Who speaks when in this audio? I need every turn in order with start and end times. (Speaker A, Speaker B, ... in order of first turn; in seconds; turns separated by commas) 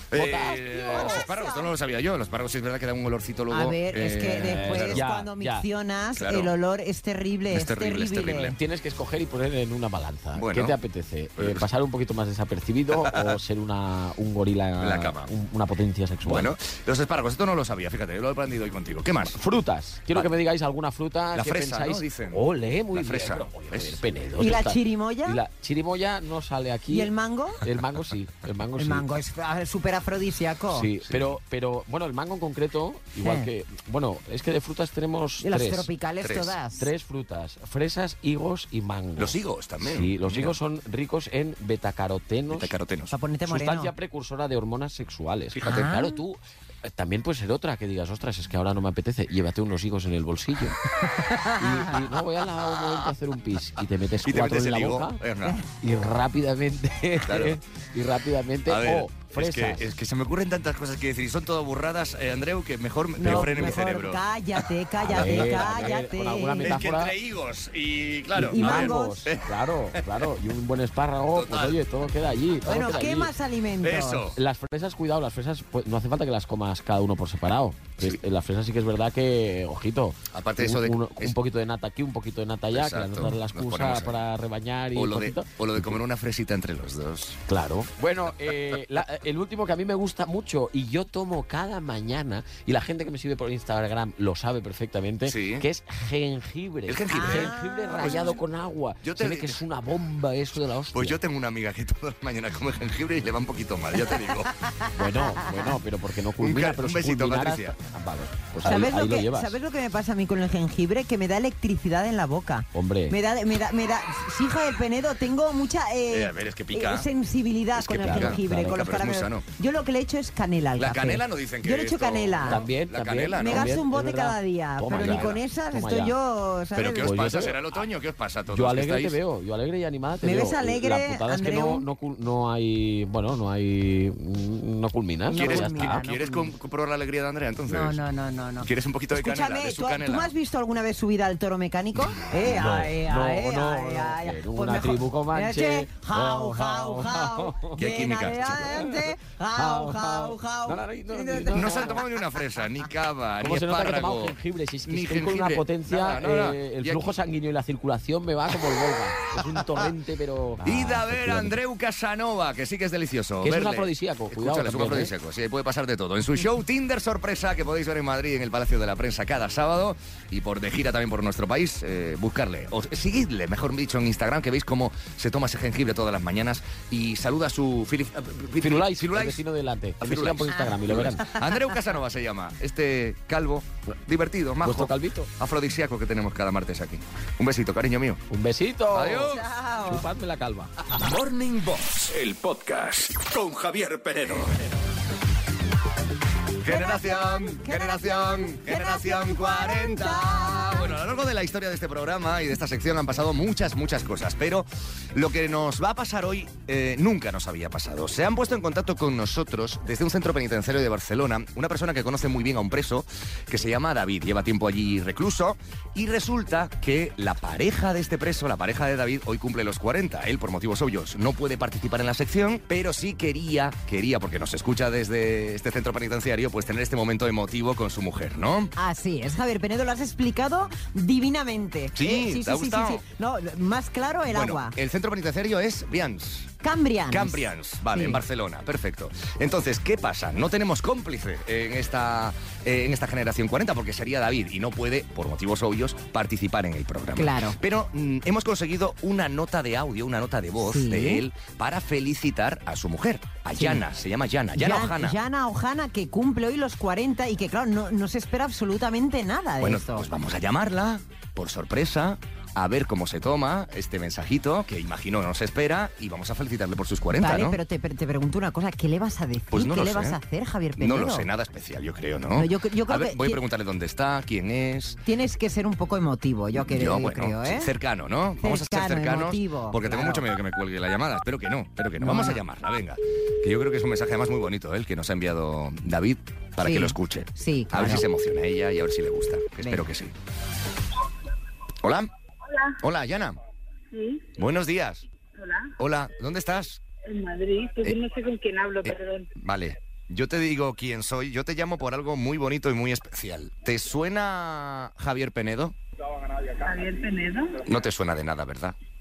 Speaker A: 0.1-5.0, Speaker B: 0.1-1.2, Speaker C: 0.7-1.7, Speaker C: 3.5-8.6, Speaker B: 4.5-5.7, Speaker A: 6.2-6.5, Speaker A: 7.5-8.6, Speaker B: 8.5-16.5, Speaker A: 10.3-10.8, Speaker A: 11.4-11.7, Speaker A: 13.0-13.3, Speaker A: 14.8-15.3, Speaker A: 16.2-19.4, Speaker B: 19.3-29.1, Speaker A: 21.3-24.0, Speaker C: 24.4-25.4, Speaker C: 26.9-27.6, Speaker C: 28.8-30.9, Speaker B: 30.7-35.9, Speaker A: 31.1-31.3, Speaker C: 33.2-33.5, Speaker C: 35.4-36.9, Speaker A: 36.2-36.5, Speaker B: 36.8-42.7, Speaker A: 39.2-40.5, Speaker A: 42.5-43.1, Speaker C: 43.1-43.9, Speaker B: 43.5-50.8, Speaker A: 45.5-45.9, Speaker C: 45.6-46.2, Speaker C: 51.2-51.8, Speaker B: 51.5-55.2, Speaker A: 52.6-53.1, Speaker A: 54.2-55.6, Speaker B: 55.8-59.9, Speaker A: 57.2-57.6, Speaker A: 58.7-64.6, Speaker C: 63.2-66.8, Speaker B: 63.2-63.8, Speaker B: 65.0-67.1, Speaker A: 66.6-70.2, Speaker C: 68.3-69.2, Speaker B: 68.4-73.3, Speaker A: 71.3-71.8, Speaker C: 72.6-74.3, Speaker A: 73.8-74.4, Speaker B: 74.3-86.0, Speaker A: 80.3-81.3, Speaker A: 82.7-84.2, Speaker A: 84.9-87.4, Speaker B: 87.5-101.2, Speaker A: 95.2-95.6, Speaker A: 96.9-98.2, Speaker C: 97.1-98.4, Speaker A: 99.0-99.6, Speaker A: 100.9-104.5, Speaker C: 104.7-105.7, Speaker B: 105.0-109.5, Speaker A: 106.4-107.8, Speaker C: 108.6-122.6, Speaker B: 112.7-113.2, Speaker A: 116.1-117.1, Speaker A: 117.8-119.4, Speaker B: 118.0-118.8, Speaker A: 120.8-123.8, Speaker B: 122.5-126.2, Speaker C: 123.3-127.3, Speaker A: 124.9-125.4, Speaker A: 126.8-129.2, Speaker B: 126.9-127.8, Speaker B: 128.5-136.0, Speaker C: 130.2-131.9, Speaker C: 135.2-136.5, Speaker A: 135.3-138.0, Speaker C: 137.7-152.0, Speaker A: 138.6-140.3, Speaker B: 142.4-152.0, Speaker A: 147.8-148.6, Speaker A: 151.5-157.1, Speaker B: 153.4-161.5, Speaker A: 160.6-179.4, Speaker B: 163.4-165.1, Speaker B: 178.6-181.3, Speaker A: 180.0-188.2, Speaker B: 184.6-185.3, Speaker B: 188.3-190.7, Speaker A: 188.9-189.4, Speaker C: 189.2-190.1, Speaker D: 190.9-194.1, Speaker A: 193.4-194.6, Speaker A: 196.6-228.7, Speaker C: 196.6-200.9, Speaker C: 228.8-234.8, Speaker A: 231.9-233.0, Speaker A: 234.3-236.5, Speaker C: 236.6-238.2, Speaker A: 237.1-255.2, Speaker C: 247.2-247.6, Speaker C: 250.6-251.2, Speaker C: 253.6-253.8, Speaker C: 254.5-260.1, Speaker A: 259.6-267.6, Speaker C: 267.1-271.3, Speaker A: 269.5-270.2, Speaker A: 270.8-275.0, Speaker C: 272.3-273.4, Speaker C: 275.1-277.7, Speaker A: 276.6-290.1, Speaker C: 278.4-280.2, Speaker C: 282.0-282.4, Speaker C: 286.6-288.1, Speaker A: 291.8-292.1, Speaker E: 292.4-292.8, Speaker A: 292.8-293.4, Speaker E: 293.9-294.3, Speaker A: 294.4-295.0, Speaker E: 295.3-295.7, Speaker A: 295.8-296.8, Speaker E: 297.0-299.3, Speaker A: 298.8-305.8, Speaker E: 306.6-307.6, Speaker A: 307.6-308.8